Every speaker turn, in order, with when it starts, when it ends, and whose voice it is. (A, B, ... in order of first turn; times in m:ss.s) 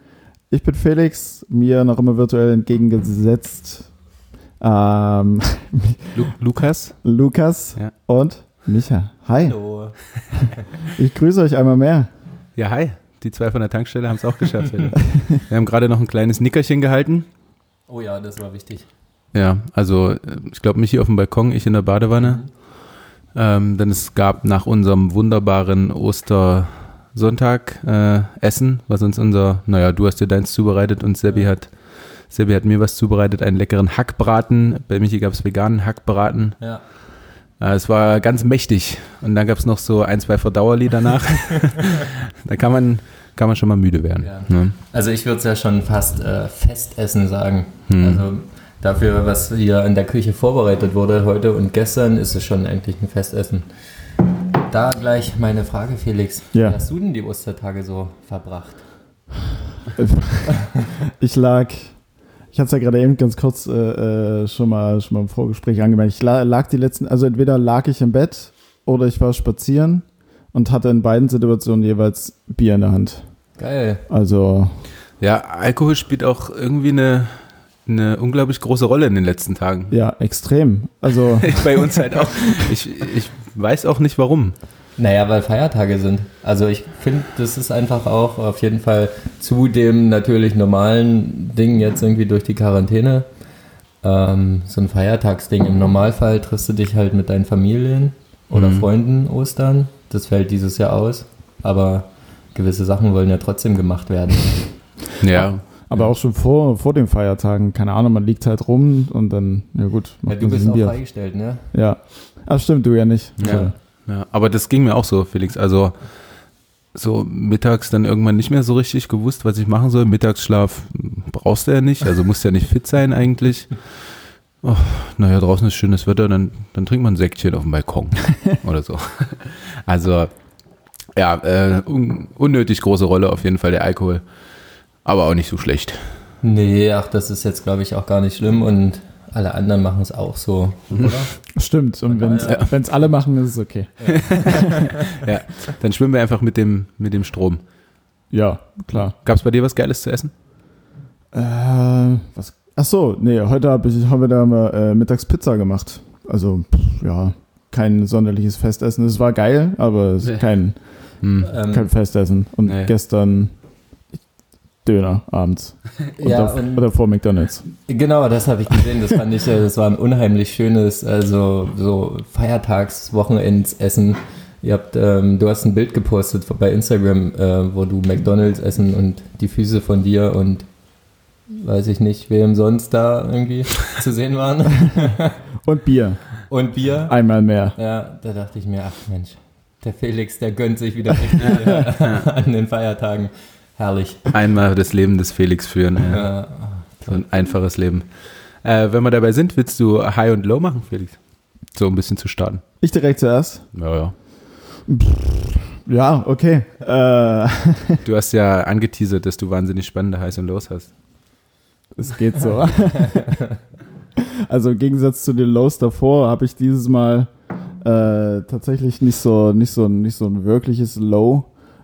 0:00.5-0:03.9 A
0:04.6-0:06.2 A
0:06.1-0:07.0 B
0:07.0-0:09.6 A
0:09.4-0:10.0 C
0:10.4-0:12.1 A
0:12.6-0:17.3 B
0:14.7-0:14.9 C
0:17.9-0:18.9 C
0:19.3-0:22.4 B
0:22.2-0:22.5 C
0:23.3-0:31.7 B
0:32.3-0:36.6 B
0:37.6-0:44.8 B
0:44.2-0:53.6 C
0:47.9-0:48.2 B
0:54.6-0:58.8 C
1:00.0-1:01.9 A
1:02.5-1:13.2 A
1:13.6-1:14.0 C
1:14.1-1:14.8 A
1:15.2-1:19.9 B
1:19.9-1:21.9 A
1:21.4-1:24.6 B
1:25.0-1:33.3 C
1:34.0-1:44.7 C
1:38.5-1:38.8 B
1:45.2-1:45.6 B
1:45.3-1:51.0 A
1:50.3-1:51.6 C
1:51.7-1:53.7 A
1:53.4-1:55.9 B
1:53.4-1:53.7 C
1:56.9-2:03.7 B
2:04.6-2:10.3 B
2:11.2-2:14.2 B
2:15.0-2:16.0 B
2:16.4-2:21.3 C
2:21.6-2:24.9 A
2:22.1-2:22.7 C
2:24.0-2:25.2 C
2:24.1-2:27.6 B
2:28.3-2:29.2 A
2:29.2-2:30.3 B
2:31.3-2:40.8 A
2:41.2-2:41.5 B
2:41.4-2:41.9 C
2:41.7-2:43.5 A
2:42.6-2:42.9 B
2:44.8-2:47.6 A
2:46.2-2:46.8 C
2:47.8-3:00.6 C
3:01.5-3:05.4 C
3:05.6-3:06.2 A
3:06.5-3:07.2 C
3:07.1-3:07.8 A
3:07.7-3:14.3 C
3:11.4-3:12.3 B
3:14.3-3:16.2 B
3:16.0-3:17.2 C
3:17.1-3:18.0 B
3:18.6-3:21.2 B
3:21.7-3:22.6 B
3:22.8-3:23.6 A
3:23.7-3:24.1 B
3:24.9-3:28.0 A
3:28.0-3:30.9 B
3:32.0-3:33.4 A
3:33.1-3:33.5 C
3:34.2-3:37.3 A
3:37.8-3:41.5 A